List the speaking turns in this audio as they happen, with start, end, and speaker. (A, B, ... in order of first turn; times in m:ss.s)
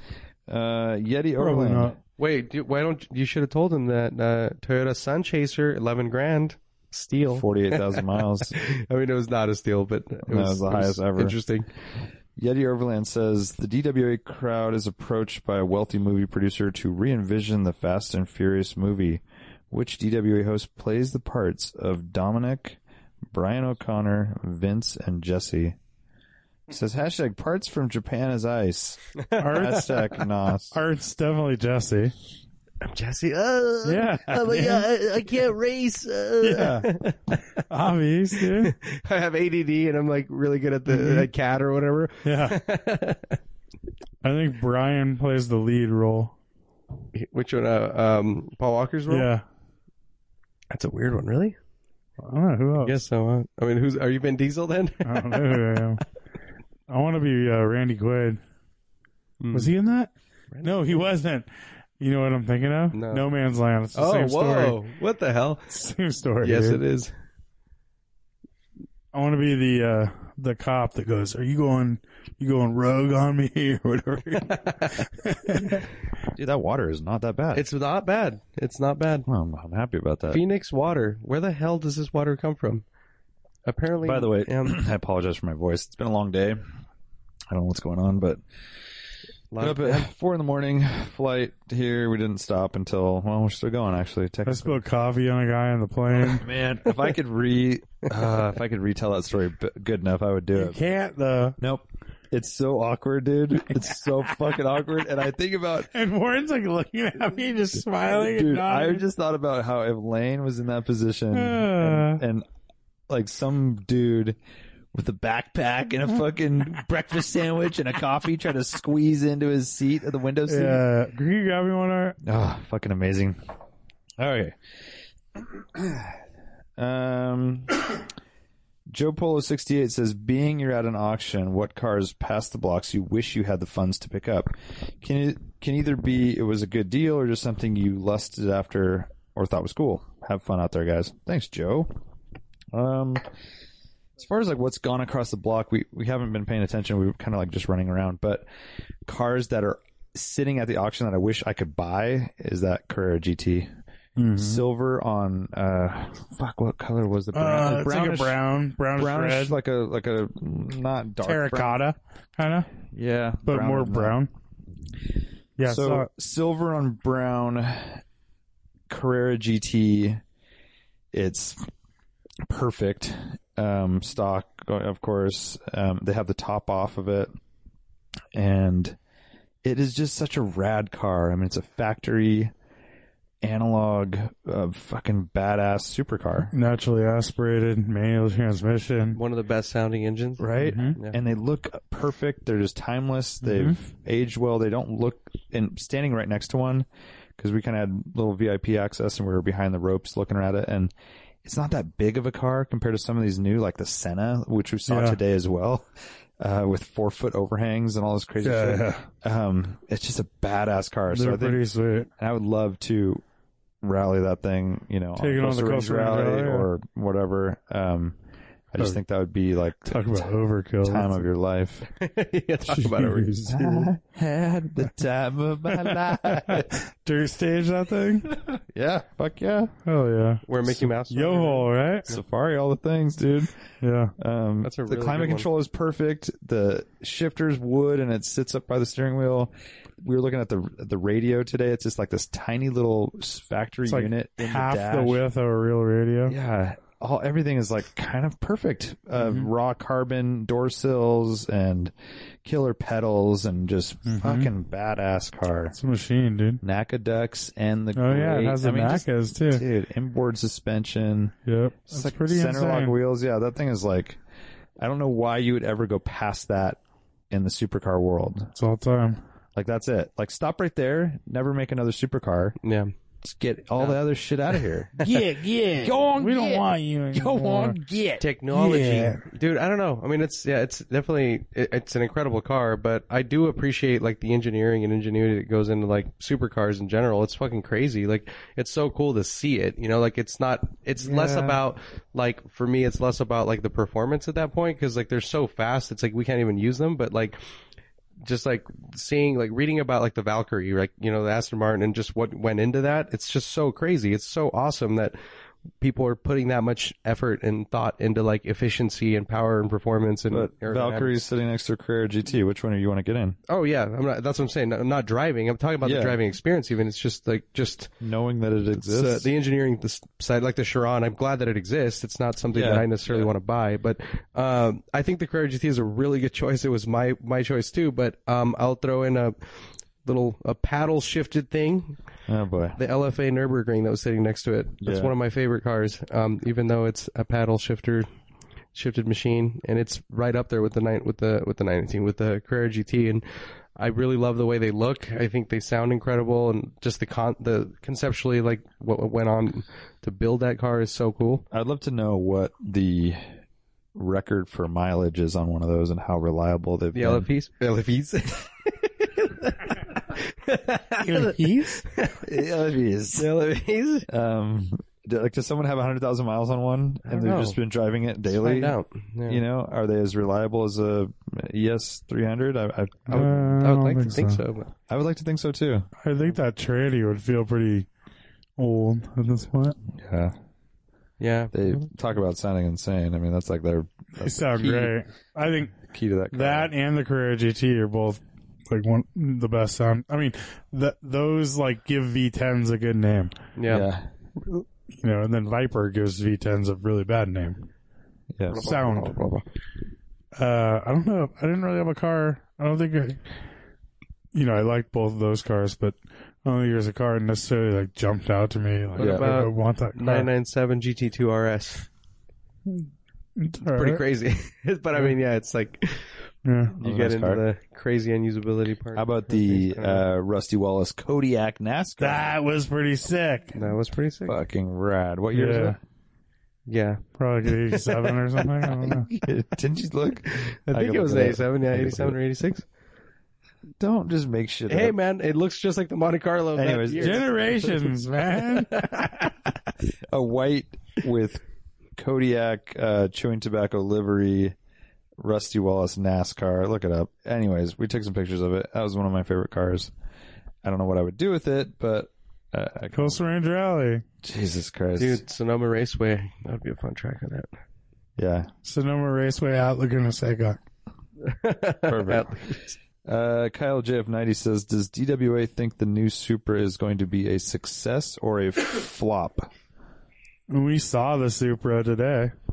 0:00.5-0:02.0 A
0:01.4-0:02.0 B
0:02.2-0:11.7 C
0:07.3-0:08.6 A
0:10.3-0:11.4 A
0:12.4-0:22.8 A
0:23.3-0:25.8 A
0:26.7-0:30.8 A
0:29.2-0:29.9 C
0:29.4-0:30.0 B
0:30.7-0:32.1 B
0:32.8-0:37.6 C
0:33.8-0:34.9 B
0:36.4-0:36.9 B
0:37.6-0:38.7 B
0:38.4-0:43.4 C
0:40.9-0:41.3 B
0:42.2-0:42.6 B
0:44.2-0:46.3 B
0:47.1-0:49.3 C
0:49.1-0:49.4 B
0:50.7-0:51.6 C
0:52.2-0:53.0 B
0:52.8-0:55.7 C
0:55.0-0:56.0 B
0:56.9-0:58.4 B
0:59.4-0:59.7 C
0:59.5-1:00.1 B
1:00.5-1:01.0 C
1:00.6-1:01.5 B
1:02.0-1:04.8 B
1:02.9-1:03.2 C
1:03.9-1:05.7 C
1:05.7-1:06.8 B
1:06.4-1:07.1 C
1:09.1-1:15.9 B
1:14.5-1:15.0 C
1:16.4-1:17.7 A
1:17.5-1:19.3 C
1:19.3-1:20.4 A
1:20.3-1:22.8 C
1:23.7-1:24.8 C
1:24.0-1:26.6 A
1:27.5-1:28.4 A
1:29.5-1:30.1 C
1:29.6-1:34.8 A
1:34.5-1:36.5 B
1:36.2-1:40.8 A
1:40.6-1:41.6 B
1:41.6-1:45.9 A
1:43.7-1:44.6 B
1:45.9-1:49.0 B
1:48.1-1:52.5 A
1:51.3-1:52.2 B
1:53.1-1:54.4 A
1:54.9-2:00.8 A
2:00.5-2:02.2 B
2:02.2-2:03.4 A
2:04.2-2:04.6 A
2:05.4-2:06.2 A
2:06.8-2:08.0 A
2:08.9-2:22.0 A
2:22.7-2:23.2 A
2:24.2-2:28.5 A
2:29.1-2:33.7 A
2:34.2-2:34.6 B
2:34.3-2:38.4 A
2:37.3-2:39.6 B
2:39.0-2:41.8 A
2:41.2-2:42.7 B
2:42.9-2:44.2 A
2:43.4-2:44.3 B
2:45.6-2:46.1 B
2:45.6-2:48.0 A
2:48.9-2:50.2 A
2:51.1-2:51.7 A
2:52.5-2:57.3 A
2:58.3-2:59.0 A
2:59.6-3:02.5 A
3:03.4-3:06.5 A
3:06.5-3:09.2 B
3:09.1-3:11.2 C
3:10.4-3:16.9 A
3:10.6-3:11.0 B
3:13.4-3:13.8 B
3:17.4-3:20.9 A
3:21.4-3:25.9 A
3:24.9-3:25.2 B
3:26.4-3:31.6 A
3:28.4-3:29.0 B
3:31.1-3:32.1 B
3:32.2-3:33.2 A
3:33.8-3:38.2 A
3:35.2-3:36.7 B
3:38.7-3:40.3 A
3:39.9-3:41.2 B
3:40.8-3:41.9 A
3:41.9-3:43.3 C
3:42.7-3:43.9 B
3:43.5-3:46.7 A
3:45.8-3:48.3 B
3:48.5-3:49.7 A
3:49.9-3:52.1 B
3:50.5-3:52.2 C
3:52.1-3:53.5 A
3:53.8-3:54.1 B
3:54.2-4:05.2 A
3:54.6-3:55.5 C
4:03.9-4:06.4 B
4:06.3-4:11.9 A
4:09.2-4:09.5 B
4:12.4-4:15.8 A
4:14.1-4:14.5 B
4:15.8-4:16.6 B
4:16.6-4:21.3 A
4:18.0-4:19.6 B
4:21.5-4:23.0 B
4:21.9-4:24.2 A
4:24.8-4:26.8 A
4:27.3-4:28.5 A
4:28.6-4:29.2 B
4:29.6-4:32.6 A
4:32.6-4:32.9 C
4:33.2-4:35.3 A
4:35.0-4:37.8 B
4:35.8-4:38.2 A
4:38.2-4:57.4 C
4:38.5-4:39.2 B
4:51.0-4:51.6 A
4:58.2-5:05.2 C
5:05.8-5:11.2 C
5:10.3-5:13.4 A
5:13.5-5:17.9 C
5:15.8-5:16.2 A
5:18.0-5:19.3 A
5:18.7-5:29.4 C
5:22.5-5:23.3 A
5:30.0-5:32.0 C
5:32.3-5:32.8 A
5:32.8-5:38.1 C
5:34.8-5:35.1 A
5:38.7-5:43.2 C
5:43.8-5:51.4 C
5:51.5-5:53.3 A
5:54.0-5:57.3 A
5:56.9-6:02.3 C
6:01.0-6:01.8 B
6:02.2-6:03.3 A
6:03.1-6:04.1 C
6:04.1-6:13.4 A
6:07.1-6:07.6 C
6:08.3-6:09.4 C
6:13.1-6:14.4 B
6:13.1-6:14.7 C
6:14.9-6:15.9 A
6:16.0-6:17.9 B
6:18.6-6:19.8 B
6:19.9-6:20.4 A
6:21.2-6:21.8 C
6:21.5-6:25.0 A
6:24.2-6:25.8 B
6:25.9-6:26.7 A
6:26.3-6:33.4 B
6:33.6-6:33.9 C
6:33.7-6:34.1 A
6:34.4-6:37.7 B
6:38.3-6:38.7 A
6:38.5-6:39.4 C
6:38.6-6:39.2 B
6:40.4-6:43.2 B
6:44.3-6:50.3 B
6:49.0-6:51.9 C
6:49.0-6:49.3 A
6:53.4-6:54.0 B
6:53.6-6:56.2 C
6:56.4-6:56.8 B
6:56.8-6:57.4 A
6:56.8-7:00.0 C
6:59.0-7:02.3 A
7:02.0-7:03.6 B
7:03.6-7:04.4 C
7:04.3-7:05.8 A
7:05.3-7:05.8 B
7:06.7-7:08.5 C
7:07.2-7:09.1 B
7:08.8-7:12.2 A
7:10.4-7:12.6 C
7:13.8-7:15.0 A
7:14.7-7:17.9 C
7:16.6-7:17.3 A
7:17.0-7:19.0 B
7:18.5-7:19.3 C
7:20.1-7:21.4 A
7:22.0-7:24.6 A
7:25.2-7:29.9 A
7:30.6-7:33.2 A
7:32.9-7:34.0 B
7:34.2-7:35.2 A
7:35.0-7:37.5 C
7:38.2-7:38.5 A
7:38.6-7:40.6 B
7:41.2-7:42.7 C
7:41.9-7:49.5 A
7:50.5-7:52.3 B